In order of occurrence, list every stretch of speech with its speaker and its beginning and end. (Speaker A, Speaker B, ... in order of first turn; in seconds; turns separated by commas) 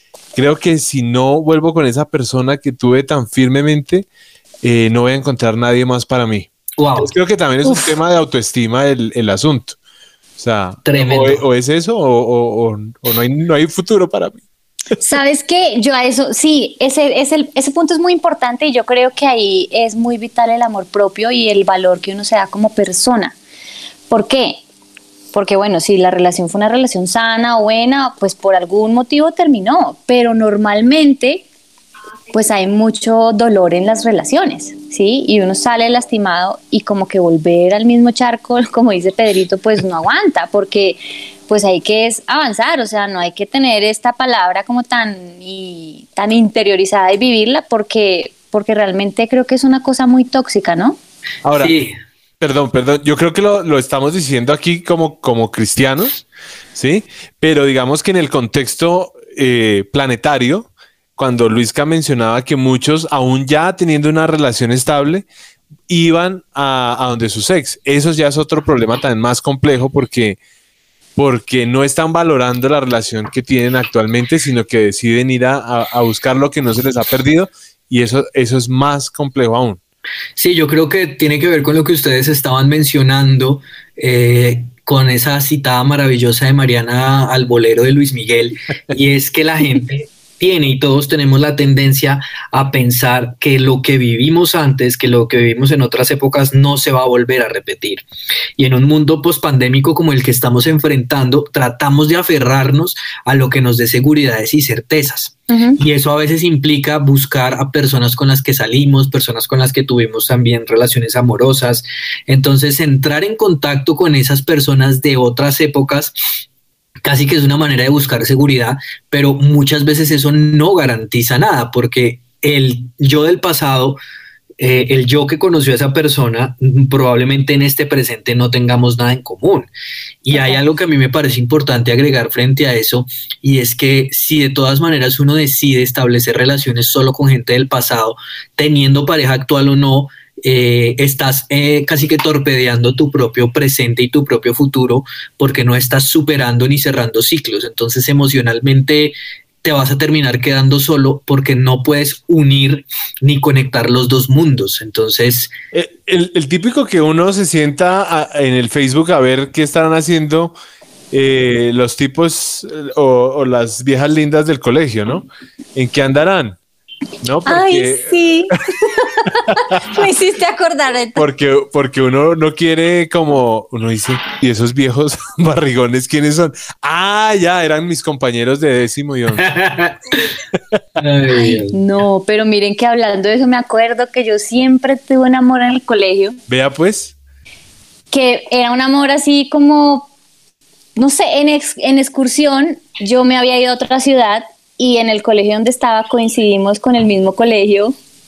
Speaker A: 0.3-4.1, Speaker A: 4.6-9.8, Speaker B: 6.8-7.1, Speaker A: 10.4-14.4, Speaker B: 10.8-11.4, Speaker C: 15.0-23.3, Speaker C: 24.1-24.6, Speaker C: 25.3-31.4, Speaker C: 32.3-51.0, Speaker A: 51.4-51.7, Speaker B: 51.6-51.9, Speaker A: 52.4-56.2, Speaker A: 56.8-65.3, Speaker A: 65.9-70.4, Speaker A: 71.2-79.8, Speaker B: 80.4-98.0, Speaker B: 98.6-116.4, Speaker C: 105.5-105.8, Speaker B: 117.0-124.0, Speaker B: 124.6-129.7, Speaker B: 130.2-155.5, Speaker C: 130.3-130.6, Speaker A: 155.7-160.5, Speaker A: 161.1-166.6, Speaker A: 167.2-168.2, Speaker C: 167.4-171.2, Speaker A: 171.2-179.5, Speaker B: 179.4-180.2, Speaker B: 181.0-181.8, Speaker C: 181.4-186.4, Speaker A: 186.5-187.1, Speaker C: 188.1-190.1, Speaker C: 191.0-197.9